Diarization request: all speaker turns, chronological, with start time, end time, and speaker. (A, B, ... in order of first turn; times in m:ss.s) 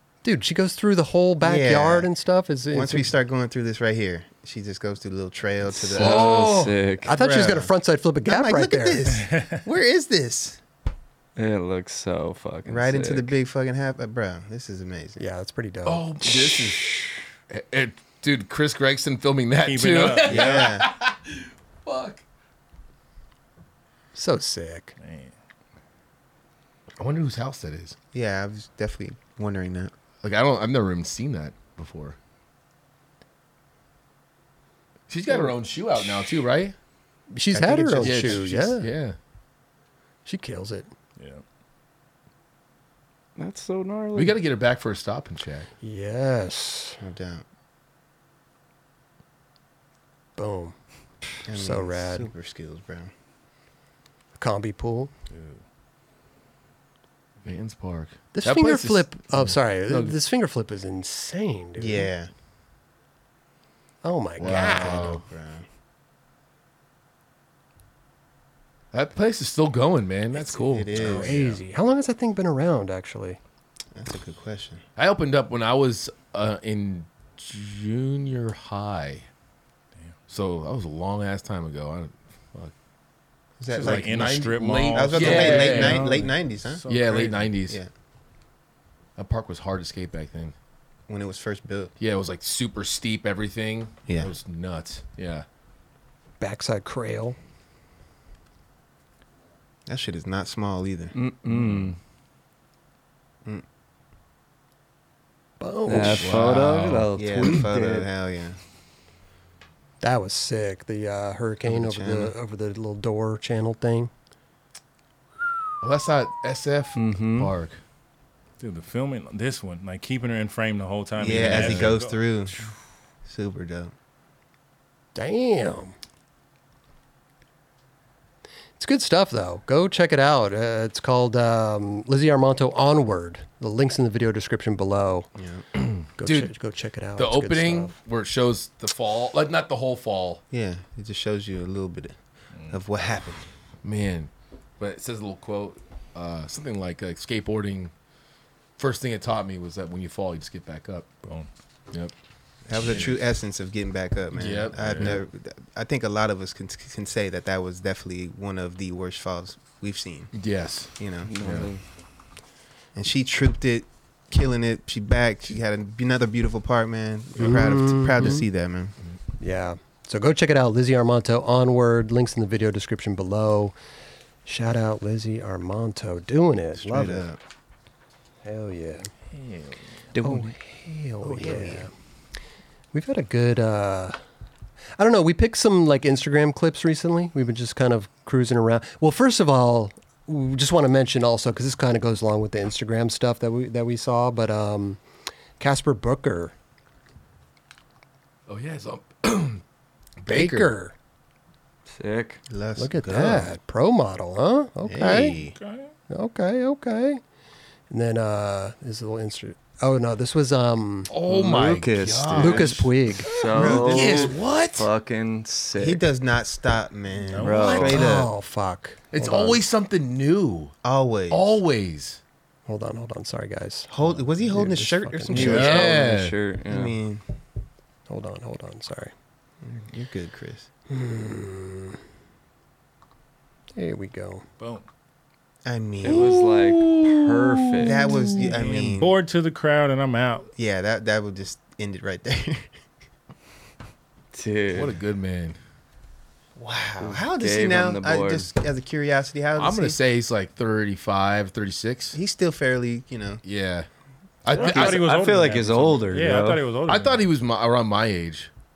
0:00.2-0:03.1 A
0:01.4-0:02.1 B
0:02.7-0:06.4 B
0:05.7-0:07.1 C
0:06.0-0:06.8 D
0:07.0-0:09.0 A
0:07.1-0:07.7 B
0:08.2-0:10.6 B
0:09.2-0:09.6 E
0:11.4-0:13.3 C
0:12.6-0:15.2 B
0:15.2-0:16.0 A
0:15.8-0:16.9 D
0:17.5-0:22.2 D
0:19.6-0:20.7 E
0:20.2-0:20.9 B
0:24.1-0:24.9 A
0:25.0-0:25.3 E
0:27.0-0:27.9 D
0:28.1-0:29.9 B
0:30.2-0:32.2 D
0:35.1-0:36.7 D
0:37.3-0:38.9 A
0:37.5-0:38.4 B
0:38.0-0:39.2 D
0:40.2-0:40.9 A
0:43.4-0:44.4 C
0:44.1-0:45.7 D
0:45.8-0:47.0 A
0:47.0-0:47.4 B
0:50.4-0:50.7 A
0:51.5-0:53.1 B
0:51.5-0:52.3 A
0:54.4-0:55.1 A
0:55.3-0:55.6 E
0:57.4-1:00.1 D
0:58.3-1:02.1 A
1:01.8-1:02.3 B
1:04.0-1:05.1 A
1:04.4-1:05.2 D
1:04.4-1:05.6 B
1:08.9-1:11.2 D
1:10.3-1:11.4 B
1:11.0-1:11.6 E
1:11.1-1:13.4 A
1:13.9-1:14.8 B
1:15.0-1:19.2 D
1:20.3-1:22.7 D
1:23.6-1:24.4 B
1:23.7-1:27.5 E
1:23.7-1:26.1 D
1:24.9-1:26.8 B
1:26.9-1:27.8 D
1:29.2-1:30.5 D
1:31.1-1:31.9 B
1:32.0-1:35.4 D
1:36.4-1:37.4 A
1:39.9-1:41.1 B
1:41.1-1:42.0 C
1:41.5-1:41.9 E
1:45.6-1:46.3 A
1:45.9-1:48.1 C
1:46.0-1:47.1 D
1:47.1-1:48.6 B
1:50.0-1:54.1 A
1:51.6-1:52.3 B
1:55.8-1:57.8 D
1:56.9-1:57.5 C
1:58.6-2:02.7 E
2:01.2-2:02.5 B
2:01.3-2:01.9 D
2:03.2-2:03.9 B
2:05.1-2:05.9 A
2:08.8-2:15.3 A
2:15.4-2:15.6 B
2:15.8-2:16.5 D
2:16.2-2:17.9 A
2:17.2-2:20.4 D
2:20.5-2:22.2 B
2:22.7-2:23.4 B
2:23.8-2:27.9 D
2:28.8-2:31.1 D
2:32.7-2:40.3 B
2:32.8-2:33.2 D
2:34.3-2:35.2 D
2:34.8-2:35.1 E
2:40.3-2:41.7 D
2:40.9-2:41.3 B
2:41.2-2:41.8 C
2:42.9-2:48.9 B
2:47.4-2:48.4 A
2:49.4-2:53.7 A
2:54.4-2:57.3 A
2:56.7-2:57.4 B
2:58.4-2:59.1 A
2:59.3-2:59.8 E
3:00.2-3:00.4 C
3:00.2-3:01.9 A
3:01.2-3:01.9 B
3:02.9-3:04.2 A
3:05.0-3:15.0 A
3:15.6-3:16.5 A
3:18.5-3:19.6 D
3:20.2-3:20.7 D
3:20.3-3:20.9 A
3:21.9-3:22.4 C
3:22.5-3:23.5 B
3:22.8-3:25.4 A
3:24.8-3:25.6 B
3:25.6-3:25.9 E
3:26.1-3:27.2 A
3:27.9-3:31.1 A
3:31.1-3:34.9 D
3:31.3-3:32.7 C
3:32.0-3:32.7 B
3:32.4-3:33.3 A
3:33.2-3:36.0 C
3:33.5-3:34.3 B
3:35.7-3:38.3 B
3:37.3-3:37.8 E
3:37.4-3:38.0 C
3:37.5-3:38.0 D
3:37.9-3:39.6 A
3:39.1-3:40.7 D
3:40.8-3:41.6 B
3:41.3-3:42.2 D
3:42.7-3:43.9 A
3:43.9-3:46.0 B
3:44.4-3:45.6 A
3:45.3-3:47.0 C
3:45.4-3:46.4 D
3:46.7-3:47.2 B
3:48.1-3:49.1 A
3:49.6-3:50.7 B
3:50.9-3:52.0 A
3:53.7-3:54.4 A
3:54.6-3:54.8 E
3:55.6-3:56.5 B
3:56.0-3:58.1 C
3:57.8-3:59.2 B
3:58.9-4:00.5 E
4:00.6-4:02.7 B
4:04.3-4:05.0 C
4:04.7-4:05.6 D
4:06.6-4:10.0 B
4:07.0-4:08.5 C
4:09.6-4:12.2 D
4:12.1-4:13.4 B
4:13.4-4:13.9 D
4:14.4-4:15.1 D
4:14.5-4:17.2 E
4:14.5-4:16.6 C
4:16.9-4:18.5 D